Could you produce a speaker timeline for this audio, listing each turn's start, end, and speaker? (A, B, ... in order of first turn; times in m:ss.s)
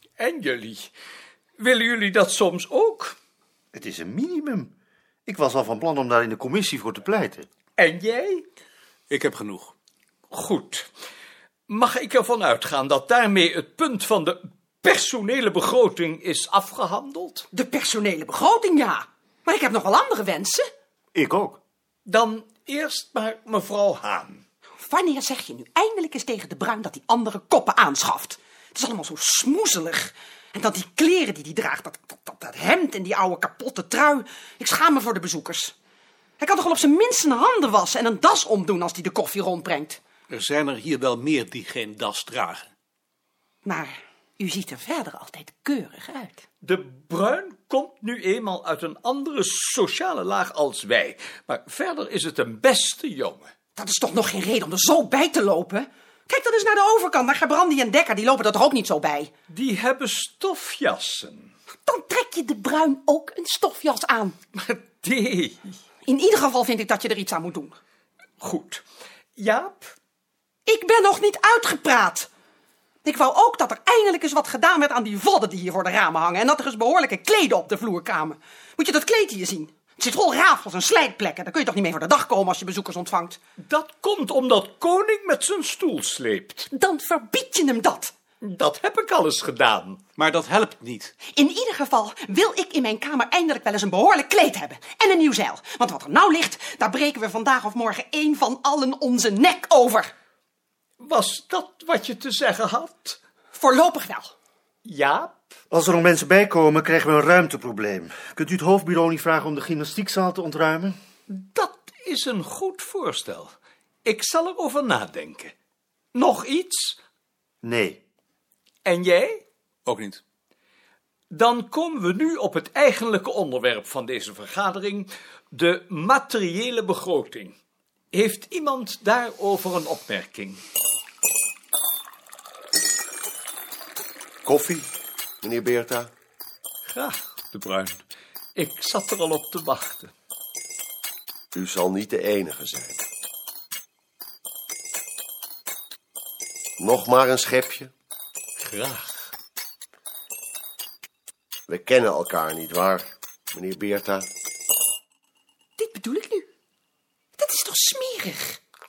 0:00.2-0:00.9 A
0:01.6-0:03.2 A
0:03.7-0:04.7 B
0:05.3-0:07.5 B
0:07.8-0:08.5 A
0:09.1-0:09.8 C
0:10.3-0:10.9 A
0:11.7-0:17.5 A
0:17.5-0:20.7 D
0:21.2-0:21.6 E
0:22.1-0:24.4 A
0:24.8-0:35.7 D
0:36.4-0:40.0 D
0:40.3-0:42.7 C
0:43.6-0:46.4 D
0:46.6-0:53.5 A
0:53.8-0:59.3 D
0:59.5-1:01.5 A
1:01.9-1:04.4 D
1:04.6-1:05.8 A
1:06.0-1:07.8 D
1:08.4-1:08.8 A
1:09.4-1:09.9 A
1:10.7-1:12.3 D
1:13.0-1:23.4 D
1:23.6-1:26.7 A
1:26.7-1:28.2 D
1:28.4-1:30.0 A
1:30.2-1:31.1 C
1:31.3-1:40.1 D
1:41.0-1:43.2 A
1:43.5-1:44.3 D
1:44.8-1:45.4 A
1:45.7-1:49.0 E
1:45.7-1:50.8 B
1:51.3-1:53.5 A
1:54.0-1:55.5 A
1:56.1-1:57.0 A
1:57.6-1:57.9 B
1:58.9-1:59.4 A
1:59.9-2:00.2 C
2:01.3-2:07.6 A
2:08.1-2:10.6 A
2:14.4-2:14.9 E
2:15.4-2:16.1 E
2:16.9-2:18.0 A
2:18.6-2:20.1 A
2:21.5-2:23.0 E
2:26.8-2:27.9 E
2:28.6-2:29.3 A
2:31.7-2:34.3 E
2:35.8-2:36.5 D
2:37.4-2:38.6 D